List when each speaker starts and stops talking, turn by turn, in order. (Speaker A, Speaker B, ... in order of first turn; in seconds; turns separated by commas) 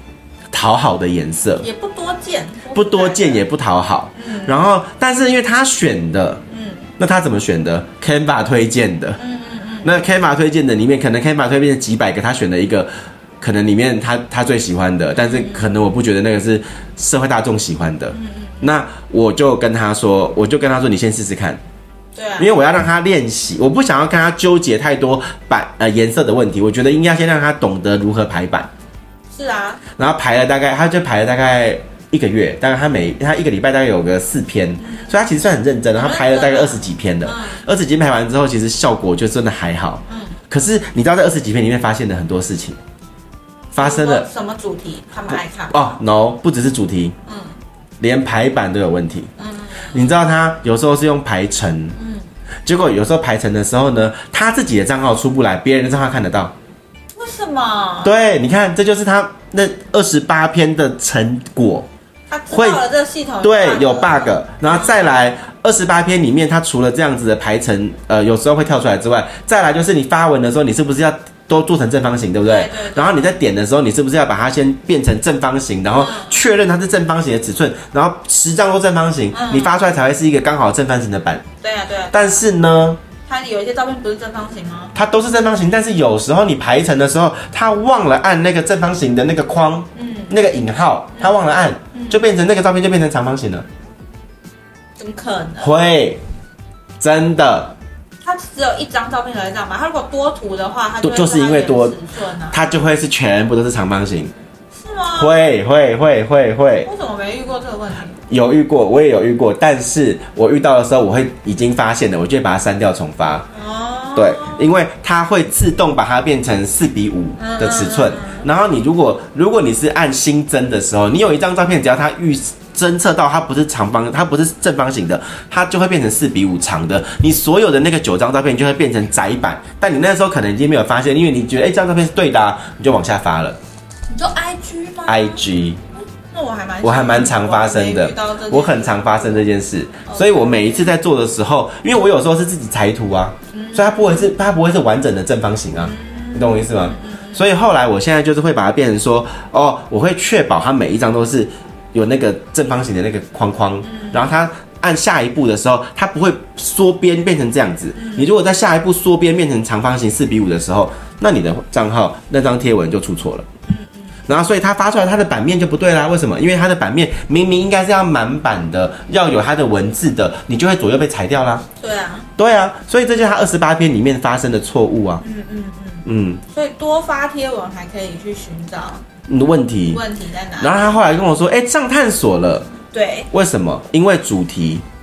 Speaker A: 0.5-1.6, Speaker B: 1.6-3.4, Speaker A: 2.7-6.4, Speaker B: 4.2-4.6, Speaker B: 6.5-6.8, Speaker A: 7.0-9.2, Speaker B: 9.2-10.1, Speaker A: 9.8-12.9, Speaker A: 13.4-21.6, Speaker B: 15.2-15.7, Speaker B: 18.1-18.7, Speaker B: 22.1-22.5, Speaker A: 22.4-28.7, Speaker B: 29.3-29.8, Speaker A: 30.0-42.8, Speaker B: 34.8-35.1, Speaker B: 35.9-37.6, Speaker B: 40.1-40.4, Speaker A: 43.7-44.2, Speaker B: 43.8-46.0, Speaker A: 45.3-47.1, Speaker B: 47.3-47.6, Speaker A: 48.0-49.3, Speaker B: 49.4-50.1, Speaker A: 49.9-52.0, Speaker B: 52.0-52.2, Speaker A: 52.6-56.5, Speaker B: 57.1-58.2, Speaker A: 58.0-61.9, Speaker B: 62.3-65.1, Speaker A: 62.5-62.8, Speaker A: 63.4-81.5, Speaker B: 72.4-73.4, Speaker B: 75.9-76.4, Speaker B: 79.3-79.7, Speaker B: 81.6-82.4, Speaker A: 82.1-83.0, Speaker B: 83.2-84.9, Speaker A: 84.9-93.6, Speaker B: 89.9-90.3, Speaker B: 91.9-92.2, Speaker B: 95.0-95.7, Speaker A: 95.6-96.2, Speaker A: 97.0-97.7, Speaker B: 98.2-102.6, Speaker A: 101.0-101.9, Speaker A: 102.5-104.3, Speaker B: 104.7-105.3, Speaker A: 105.2-106.9, Speaker B: 106.8-108.2, Speaker A: 108.3-113.5, Speaker B: 113.5-114.7, Speaker A: 114.1-133.6, Speaker B: 117.4-118.5, Speaker B: 134.1-135.4, Speaker A: 135.1-135.8, Speaker B: 135.9-139.4, Speaker A: 136.8-163.5, Speaker B: 140.1-140.9, Speaker B: 143.5-144.3, Speaker B: 145.8-147.4, Speaker B: 153.8-154.3, Speaker B: 157.9-158.3, Speaker B: 163.7-164.1, Speaker A: 164.3-171.6, Speaker B: 171.8-172.3, Speaker A: 172.4-175.2, Speaker B: 175.2-179.1, Speaker A: 176.0-176.4, Speaker A: 179.3-180.0, Speaker B: 179.9-181.0, Speaker A: 180.6-182.7, Speaker B: 182.9-183.3, Speaker A: 183.3-184.8